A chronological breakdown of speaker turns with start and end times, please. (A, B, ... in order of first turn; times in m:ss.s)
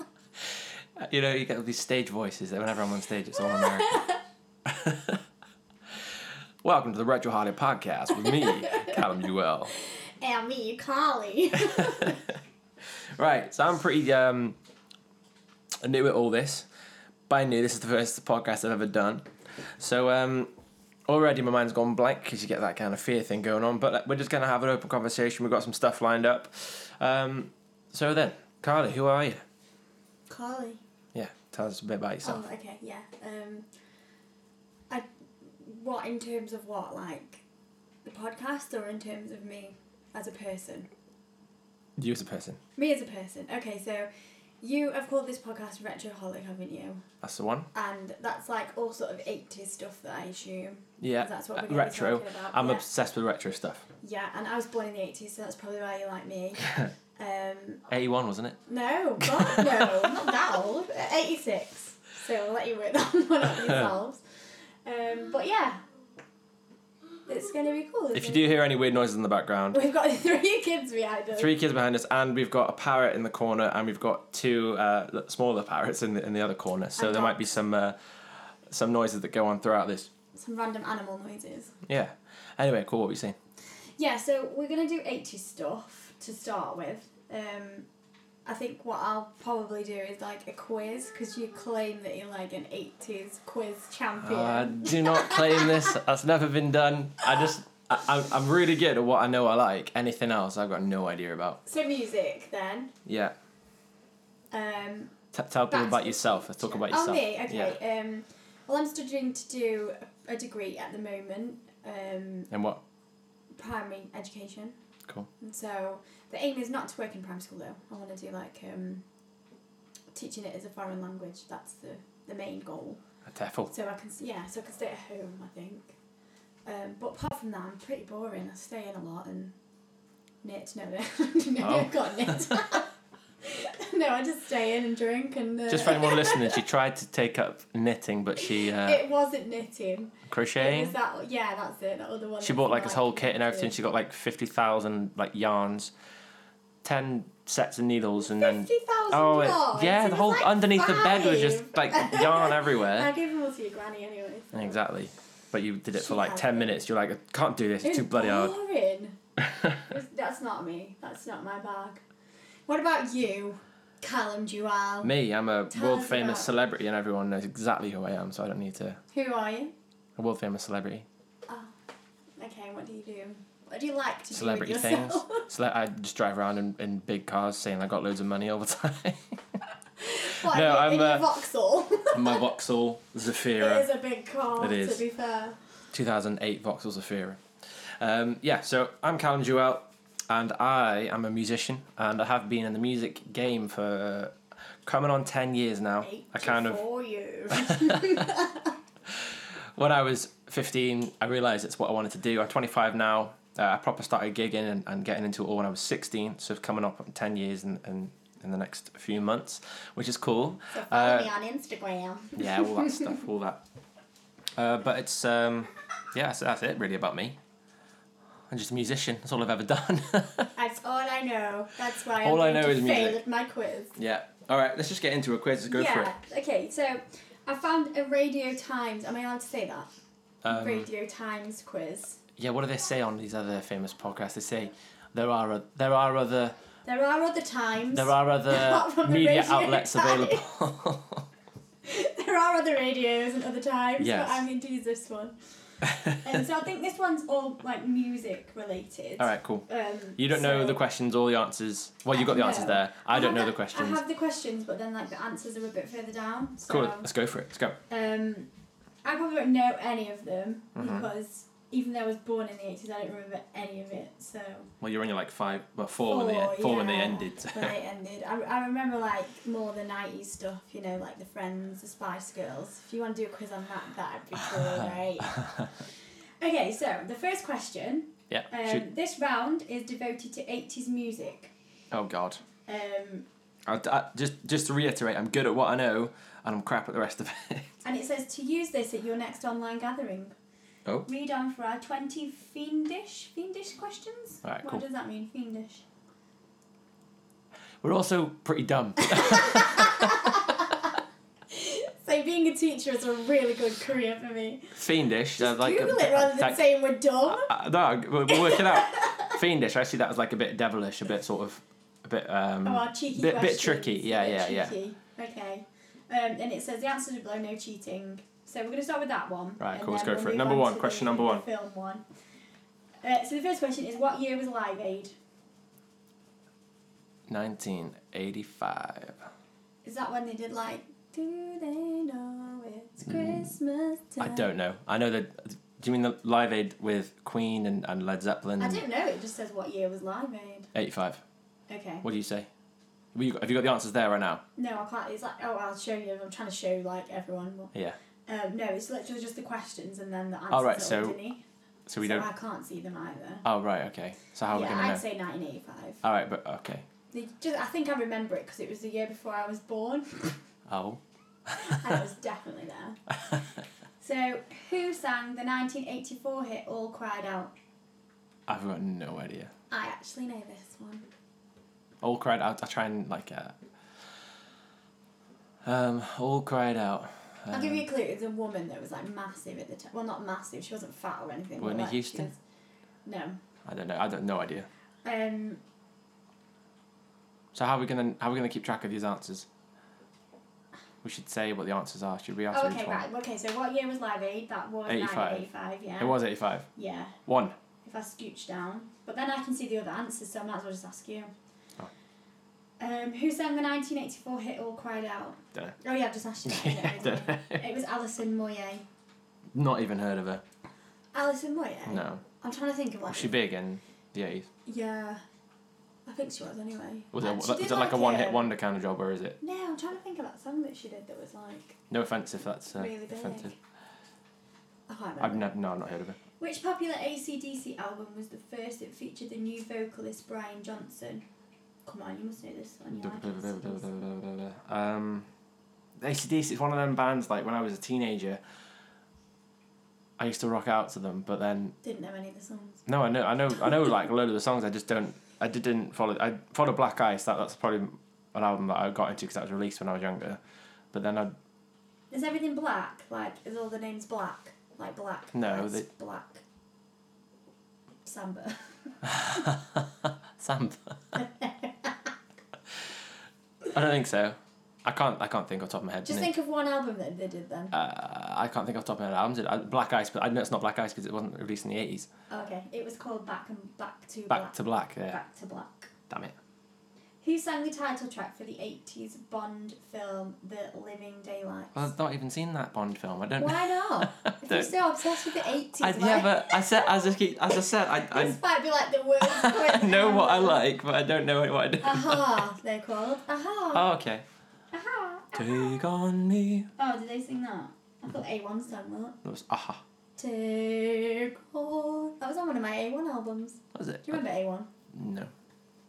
0:00.5-0:04.0 A
0:03.4-0:04.2 B
0:04.6-0:05.2 A
0:06.6-0:09.7 A
0:08.2-0:09.0 B
0:10.2-0:12.2 B
0:11.7-0:12.2 A
0:13.2-0:14.6 A
0:15.8-0:16.7 A
0:17.3-0:19.3 A
0:19.8-0:20.5 A
0:21.1-0:29.4 A
0:30.3-0:30.8 B
0:31.1-0:32.4 A
0:32.2-0:33.6 B
0:34.9-0:37.4 B
0:38.0-0:40.9 B
0:42.0-0:42.6 A
0:42.8-0:44.1 B
0:44.6-0:47.0 B
0:47.2-0:47.7 A
0:47.7-0:52.8 B
0:51.0-0:53.8 A
0:54.0-0:57.8 B
0:56.6-0:56.9 A
0:57.9-0:58.6 A
0:58.7-1:04.2 B
0:59.2-1:00.1 A
1:03.6-1:03.9 A
1:04.8-1:05.8 B
1:07.2-1:08.6 B
1:08.1-1:09.8 A
1:09.7-1:11.6 B
1:11.4-1:18.0 A
1:17.0-1:17.4 B
1:18.7-1:20.1 A
1:20.3-1:21.7 B
1:21.8-1:23.4 A
1:24.0-1:27.9 B
1:28.4-1:36.0 B
1:34.2-1:41.6 A
1:41.6-1:42.9 B
1:43.0-1:43.3 A
1:44.5-1:45.1 B
1:45.3-1:47.7 A
1:45.7-1:52.5 B
1:52.5-1:52.8 A
1:53.5-1:54.8 B
1:55.4-1:59.0 B
2:00.1-2:03.0 B
2:03.3-2:03.7 A
2:03.7-2:05.9 B
2:06.6-2:09.5 B
2:10.4-2:12.9 B
2:11.6-2:12.8 A
2:13.4-2:16.6 B
2:15.7-2:19.0 A
2:18.4-2:23.8 B
2:20.3-2:20.9 A
2:22.4-2:25.9 A
2:26.8-2:33.1 A
2:28.2-2:34.8 B
2:34.5-2:38.6 A
2:36.0-2:36.8 B
2:37.8-2:39.2 B
2:39.4-2:39.8 A
2:39.8-2:42.0 B
2:42.7-2:45.1 B
2:45.0-2:49.0 A
2:45.7-2:46.5 B
2:49.1-2:49.7 B
2:50.2-2:51.0 A
2:51.5-2:51.7 B
2:52.4-2:55.5 B
2:54.3-2:59.4 A
3:00.0-3:02.4 B
3:00.2-3:01.2 A
3:02.1-3:03.9 A
3:03.6-3:05.6 B
3:04.6-3:05.0 A
3:05.9-3:07.4 A
3:08.0-3:14.3 A
3:14.8-3:16.8 A
3:16.0-3:18.7 B
3:17.5-3:18.4 A
3:19.1-3:31.3 A
3:30.7-3:33.1 B
3:32.4-3:33.6 A
3:34.6-3:37.4 A
3:38.5-3:40.5 A
3:40.6-3:43.9 B
3:42.2-3:43.2 A
3:44.0-3:46.1 A
3:45.7-3:49.9 B
3:50.4-3:50.9 A
3:50.5-3:52.2 B
3:52.4-3:56.5 A
3:56.8-4:00.5 B
3:57.9-4:01.2 A
4:01.8-4:05.3 B
4:04.0-4:04.4 A
4:05.8-4:06.2 A
4:06.1-4:10.8 B
4:09.2-4:14.0 A
4:12.1-4:17.1 B
4:16.7-4:17.8 A
4:17.9-4:18.5 B
4:19.0-4:24.7 B
4:20.8-4:21.1 A
4:24.8-4:27.8 A
4:26.0-4:35.4 B
4:35.2-4:35.7 A
4:36.4-4:41.5 B
4:38.3-4:38.9 A
4:41.9-4:42.4 A
4:42.6-4:43.2 B
4:43.7-4:47.7 A
4:47.8-4:50.3 B
4:51.0-4:55.8 B
4:54.4-4:54.8 A
4:57.8-5:00.4 A
4:59.0-5:00.9 B
5:01.5-5:04.8 B
5:04.8-5:06.7 A
5:05.4-5:07.5 B
5:07.3-5:14.7 A
5:08.3-5:09.4 B
5:12.6-5:22.0 B
5:19.6-5:21.4 A
5:23.0-5:25.1 B
5:27.3-5:29.2 A
5:29.8-5:34.5 B
5:33.0-5:33.5 A
5:34.2-5:38.8 A
5:38.6-5:40.7 B
5:40.7-5:41.2 A
5:41.7-5:42.0 B
5:42.0-5:42.5 A
5:43.1-5:44.4 A
5:44.6-5:47.7 B
5:48.3-5:51.4 B
5:50.5-5:51.2 A
5:51.9-5:52.3 A
5:52.0-5:53.4 B
5:53.4-5:55.0 A
5:54.5-5:56.0 B
5:56.0-5:56.8 A
5:57.1-6:00.4 B
6:00.7-6:01.9 A
6:01.6-6:03.0 B
6:04.0-6:07.5 B
6:08.5-6:09.5 A
6:09.7-6:11.0 B
6:12.0-6:13.5 A
6:15.6-6:17.8 A
6:17.5-6:22.4 B
6:21.6-6:22.3 A
6:23.0-6:23.4 B
6:23.6-6:24.7 A
6:25.0-6:25.6 B
6:27.5-6:29.5 A
6:31.0-6:33.0 A
6:32.5-6:36.2 B
6:34.9-6:35.5 A
6:36.0-6:36.7 A
6:36.7-6:37.2 B
6:37.2-6:37.5 A
6:37.8-6:41.3 B
6:42.8-6:48.8 B
6:46.4-6:47.6 A
6:49.5-6:50.4 A
6:51.1-6:53.4 B
6:51.9-6:52.2 A
6:53.0-6:54.5 A
6:54.6-6:55.2 B
6:56.0-6:58.5 B
6:57.1-6:59.4 A
6:59.4-7:01.8 B
7:01.9-7:03.5 A
7:02.7-7:03.5 B
7:04.9-7:05.5 B
7:05.2-7:06.2 A
7:06.4-7:11.2 B
7:11.8-7:13.8 B
7:12.9-7:15.2 A
7:16.0-7:18.4 A
7:20.2-7:21.7 A
7:21.8-7:22.8 B
7:22.8-7:30.4 A
7:30.9-7:31.3 A
7:32.1-7:36.4 B
7:35.3-7:35.9 A
7:38.0-7:38.6 B
7:39.0-7:41.2 A
7:41.1-7:42.1 B
7:43.7-7:46.3 A
7:46.0-7:47.7 B
7:47.7-7:52.1 A
7:52.3-7:54.6 B
7:54.3-7:55.2 A
7:55.1-7:55.9 B
7:56.1-7:56.3 A
7:57.2-8:01.8 B
8:01.7-8:04.7 A
8:03.4-8:07.2 B
8:05.8-8:08.4 A
8:08.0-8:10.6 B
8:09.2-8:12.4 A
8:11.8-8:13.9 B
8:13.7-8:14.2 A
8:14.7-8:15.8 B
8:15.4-8:16.7 A
8:16.8-8:19.2 B
8:19.2-8:19.8 A
8:20.2-8:24.7 B
8:23.7-8:24.2 A
8:24.9-8:25.3 A